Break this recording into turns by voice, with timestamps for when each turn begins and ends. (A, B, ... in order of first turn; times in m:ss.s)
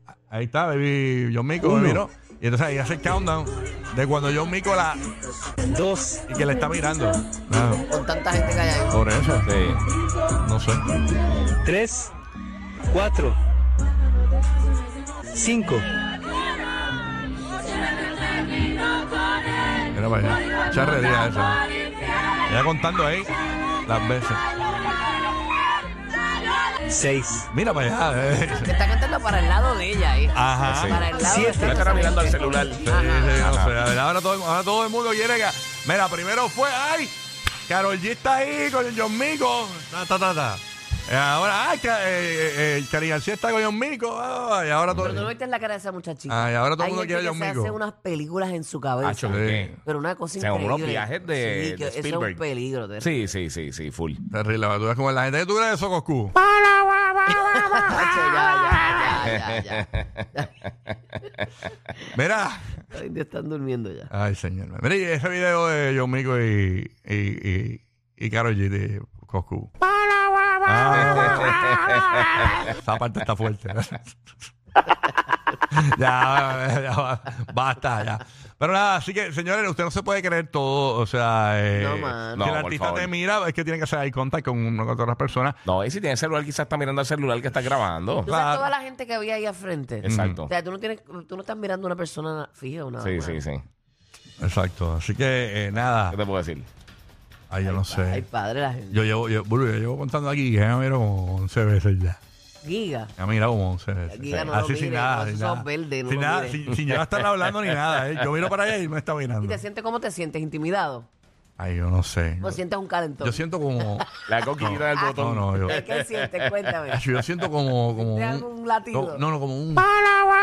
0:00.3-0:05.0 A
0:01.6-0:02.0 B
0:05.7-0:06.2 B
0:06.3-0:07.8 A
0:07.9-0:09.0 C
0:08.9-0:09.8 A
0:09.5-0:09.8 D
0:10.4-0:10.8 A
0:11.6-0:12.1 B
0:12.9-0:13.4 B
0:15.3-0:15.9 B
0:19.9-0:21.6 A
0:22.5-0:23.3 A
0:23.8-0:24.4 A
0:26.9-0:27.5 B
0:27.5-0:28.7 A
0:28.6-0:33.5 C
0:30.3-0:31.0 A
0:30.7-0:33.8 D
0:31.2-0:31.9 B
0:32.9-0:45.3 A
0:44.9-0:45.2 D
0:45.0-0:53.1 C
0:46.3-0:47.8 A
0:49.0-0:49.7 D
0:49.3-0:49.8 A
0:50.4-0:52.4 D
0:53.0-0:54.2 D
0:54.3-0:56.4 A
0:57.3-1:00.5 C
0:59.3-1:00.1 D
1:02.1-1:02.8 A
1:02.9-1:04.1 C
1:04.1-1:09.7 A
1:10.6-1:11.7 A
1:12.6-1:14.5 A
1:15.7-1:25.6 A
1:21.7-1:22.5 C
1:22.4-1:23.1 D
1:25.6-1:28.3 D
1:28.3-1:33.4 C
1:28.3-1:28.7 A
1:30.0-1:30.5 D
1:30.0-1:30.4 A
1:33.0-1:33.6 D
1:34.4-1:36.2 A
1:36.1-1:36.7 D
1:37.5-1:38.2 A
1:37.6-1:39.0 C
1:38.9-1:42.2 A
1:42.6-1:43.1 C
1:43.2-1:49.6 A
1:44.1-1:46.6 C
1:46.9-1:48.3 D
1:49.4-1:51.1 C
1:51.6-1:52.6 A
1:52.4-1:53.8 C
1:53.2-1:54.0 A
1:54.3-1:56.5 D
1:54.6-1:55.8 A
1:55.0-1:57.0 C
1:56.9-1:59.9 A
1:58.0-1:59.2 C